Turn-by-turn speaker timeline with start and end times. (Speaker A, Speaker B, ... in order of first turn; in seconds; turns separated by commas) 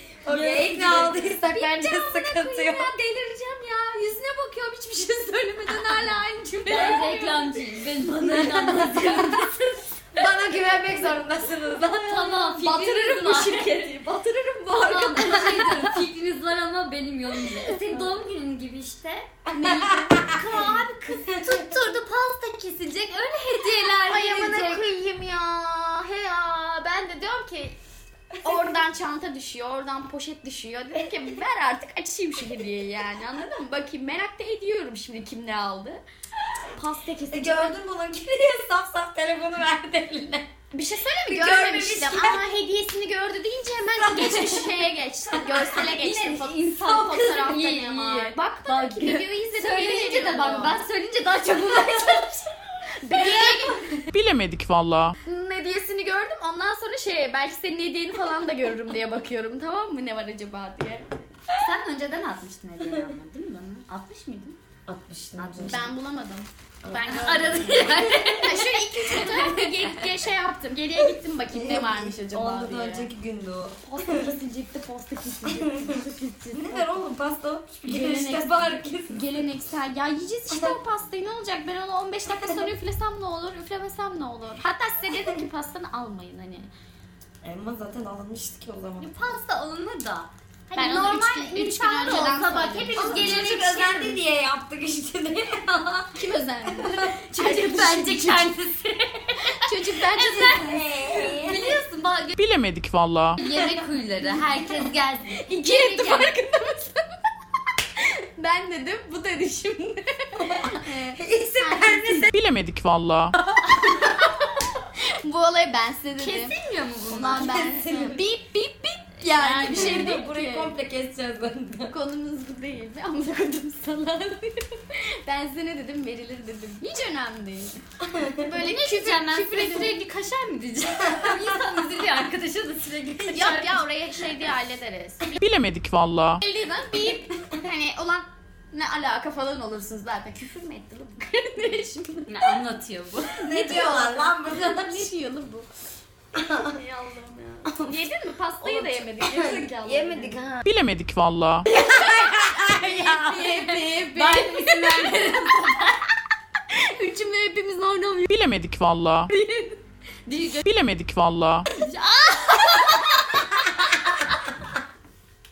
Speaker A: 0.2-2.9, Speaker B: 0.3-1.1, Speaker C: 0.6-7.6, Speaker B: 6.7-9.5, Speaker A: 8.2-9.5, Speaker A: 10.2-12.8, Speaker B: 12.0-13.9, Speaker C: 12.7-15.4, Speaker B: 14.7-19.3, Speaker A: 15.1-16.1, Speaker A: 19.5-22.0, Speaker C: 19.6-20.7, Speaker B: 20.3-24.8, Speaker C: 24.0-27.8, Speaker A: 28.4-28.8, Speaker C: 28.4-36.0, Speaker C: 36.8-37.8, Speaker A: 37.3-40.5, Speaker C: 40.7-50.8, Speaker A: 41.3-42.5, Speaker A: 43.9-45.6, Speaker B: 45.7-52.5, Speaker C: 53.0-54.0, Speaker A: 53.2-54.1, Speaker D: 54.1-55.2, Speaker C: 55.2-61.1, Speaker B: 61.6-64.6, Speaker A: 64.9-65.9, Speaker B: 65.4-65.9, Speaker C: 65.6-73.1, Speaker B: 67.0-70.0, Speaker A: 67.9-68.4, Speaker A: 71.5-74.4, Speaker C: 73.8-76.9, Speaker A: 75.5-79.2, Speaker C: 77.9-86.7, Speaker A: 80.5-80.8, Speaker A: 87.4-89.3, Speaker B: 89.0-94.2, Speaker C: 90.8-93.5, Speaker A: 92.9-97.2, Speaker C: 96.2-98.6, Speaker B: 97.3-102.4, Speaker C: 99.6-100.8, Speaker A: 100.2-101.8, Speaker D: 102.4-103.4, Speaker B: 103.4-106.3, Speaker A: 103.5-103.8, Speaker C: 105.5-107.1, Speaker C: 108.0-112.3, Speaker A: 110.4-112.3, Speaker D: 112.3-113.3, Speaker C: 113.7-116.5, Speaker B: 116.2-117.5, Speaker C: 117.1-120.8, Speaker A: 117.3-118.2, Speaker B: 119.3-120.2, Speaker A: 119.5-122.0, Speaker C: 121.9-127.8, Speaker A: 128.0-128.5, Speaker C: 128.4-130.0, Speaker B: 128.6-133.8, Speaker A: 131.0-131.8, Speaker C: 133.3-135.4, Speaker D: 135.4-136.4, Speaker C: 136.4-142.6, Speaker B: 142.3-143.5, Speaker C: 143.4-145.7, Speaker A: 143.4-145.1, Speaker A: 146.3-146.8, Speaker C: 146.5-150.4, Speaker A: 147.7-148.0, Speaker A: 148.6-150.7, Speaker D: 150.7-151.7, Speaker A: 151.7-154.0, Speaker C: 151.7-156.0, Speaker B: 154.1-155.9, Speaker C: 156.7-158.3, Speaker D: 158.3-159.3, Speaker C: 159.3-160.6, Speaker D: 160.6-161.7, Speaker C: 161.7-164.3